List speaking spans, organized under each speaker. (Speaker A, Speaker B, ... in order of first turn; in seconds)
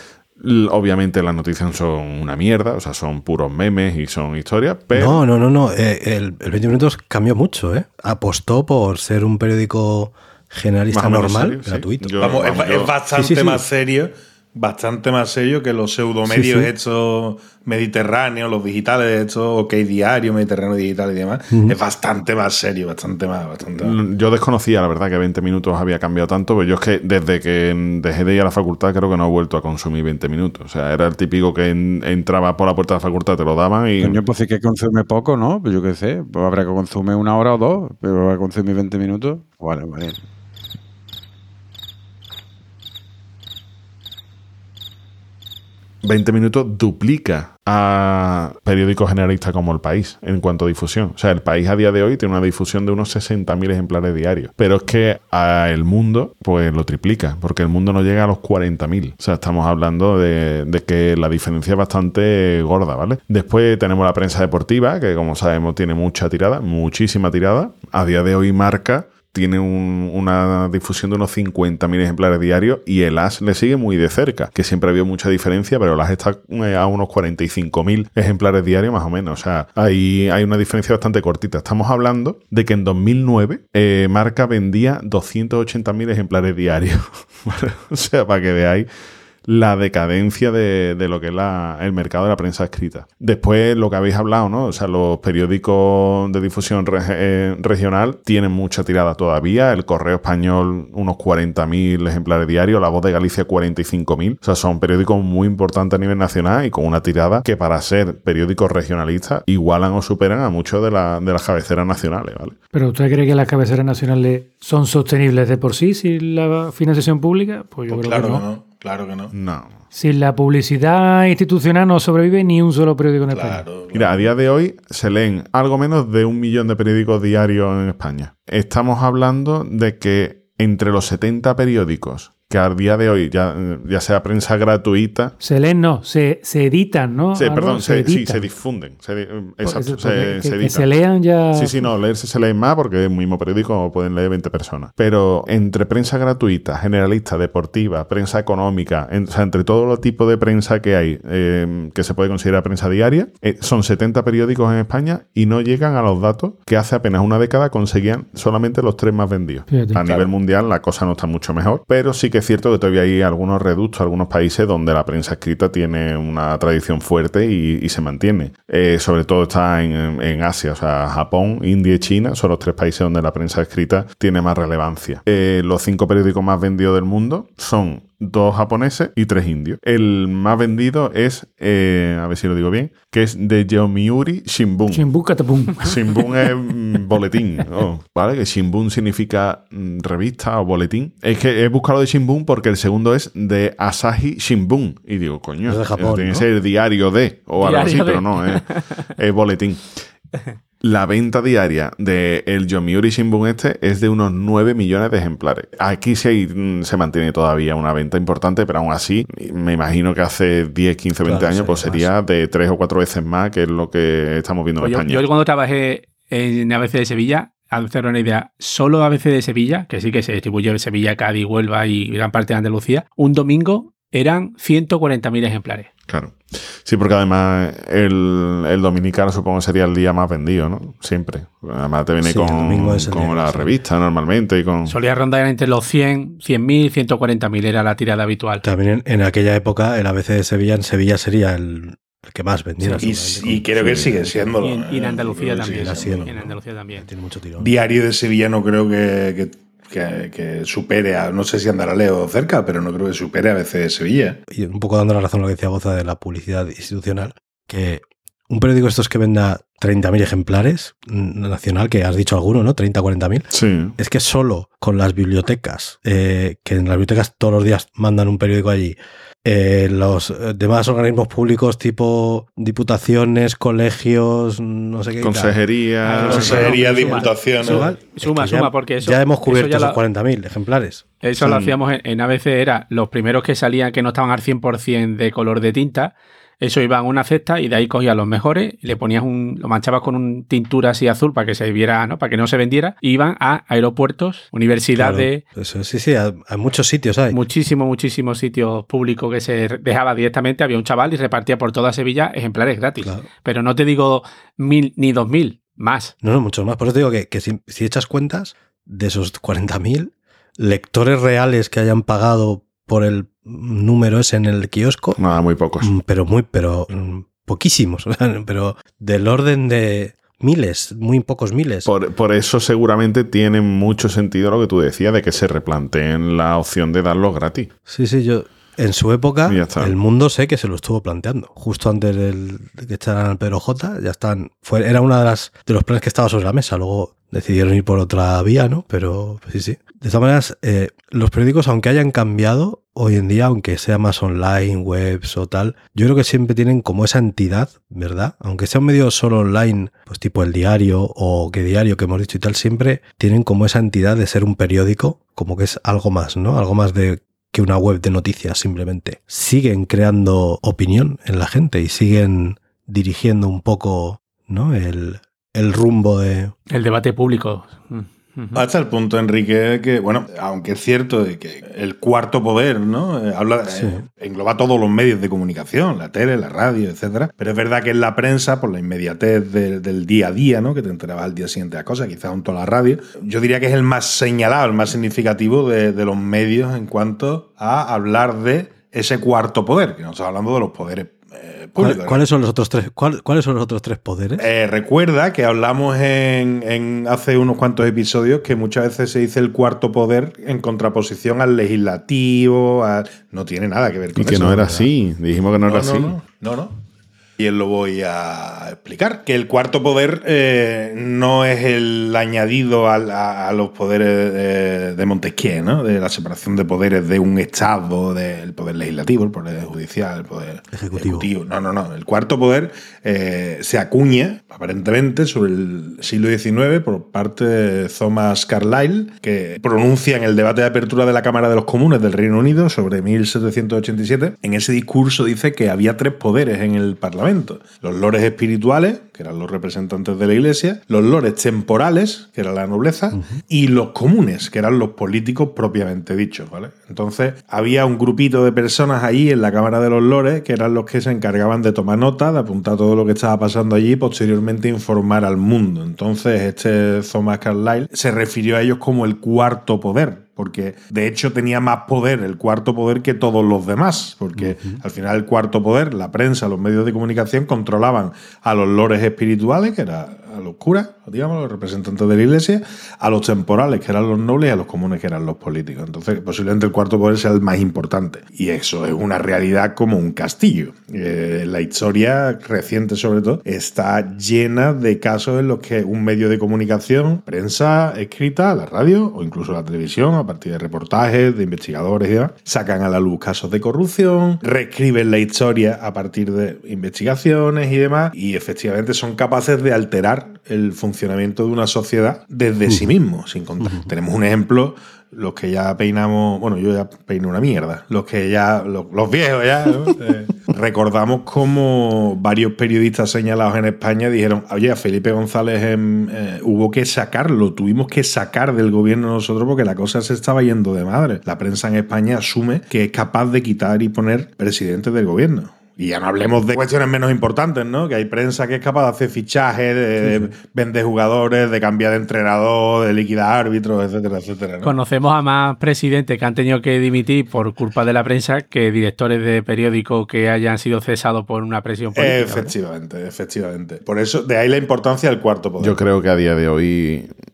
Speaker A: 0.4-5.2, 10.9-12.9, 23.8-34.2, 46.0-88.9, 89.4-112.6, 119.3-119.8, 123.9-135.3, 137.3-141.0, 141.5-185.1, 185.8-200.1, 200.8-215.3, 226.1-234.9, 243.8-244.1, 263.5-264.0, 275.2-276.8, 315.2-315.9, 321.9-327.7, 329.5-330.0, 404.1-406.1, 545.6-547.1
Speaker B: 4.9-12.6, 13.1-13.6, 16.3-16.7, 21.5-21.8, 195.7-196.5, 211.2-212.1, 232.2-233.8, 238.6-244.6, 245.7-247.7, 254.5-281.7, 294.9-297.4, 303.0-303.3, 306.2-315.2, 315.8-321.9, 327.9-366.5, 373.7-374.0, 391.8-394.5, 420.7-421.3, 443.1-443.4, 464.4-464.8, 502.7-502.9, 503.6-503.9, 530.0-530.3
Speaker C: 12.2-24.0, 117.9-119.3, 123.3-124.3, 242.8-246.3, 247.6-254.4, 276.2-277.9, 368.6-392.2, 394.4-404.9, 405.6-406.8, 407.4-534.8, 542.0-545.8
Speaker D: 34.0-40.2
Speaker E: 112.7-118.5, 119.9-123.6, 135.4-138.5, 139.6-141.9, 159.7-160.0, 184.9-186.4
Speaker F: 197.6-199.1, 214.8-225.9, 234.9-238.6, 244.6-247.1, 276.1-280.0, 281.2-295.4, 297.3-306.1, 366.7-368.6, 534.6-542.5